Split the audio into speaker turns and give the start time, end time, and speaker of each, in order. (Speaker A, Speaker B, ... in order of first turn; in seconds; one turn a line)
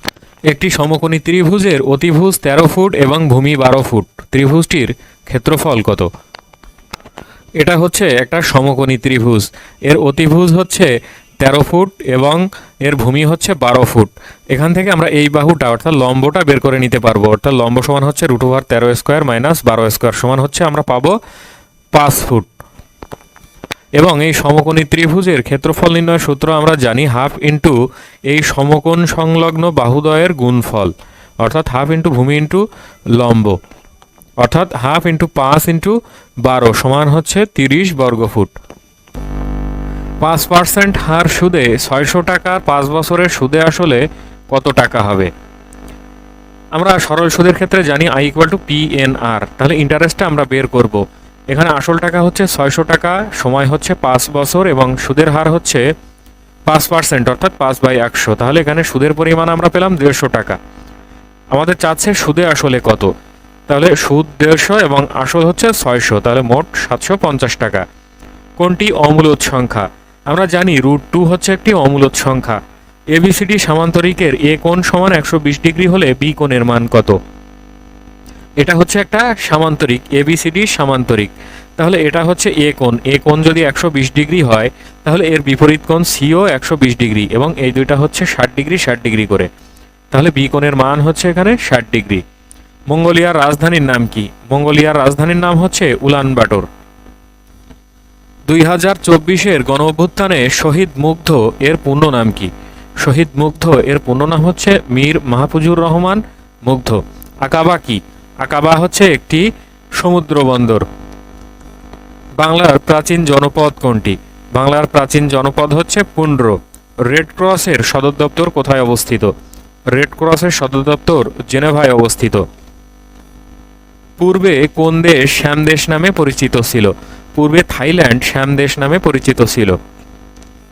Speaker A: 0.5-6.1
Speaker A: 7.6-21.2
Speaker A: 21.9-22.5
Speaker A: 24.0-27.8
Speaker A: 28.3-33.6
Speaker A: 34.4-38.5
Speaker A: 40.2-45.3
Speaker A: 46.8-55.8
Speaker A: 56.7-60.6
Speaker A: 61.5-63.1
Speaker A: 63.7-67.8
Speaker A: 68.6-72.6
Speaker A: 73.1-77.2
Speaker A: 78.6-89.5
Speaker A: 90.1-92.2
Speaker A: 92.9-96.7
Speaker A: 98.5-102.5
Speaker A: 103.0-109.5
Speaker A: 110.0-110.9
Speaker A: 112.4-119.3
Speaker A: 119.9-122.4
Speaker A: 124.2-129.8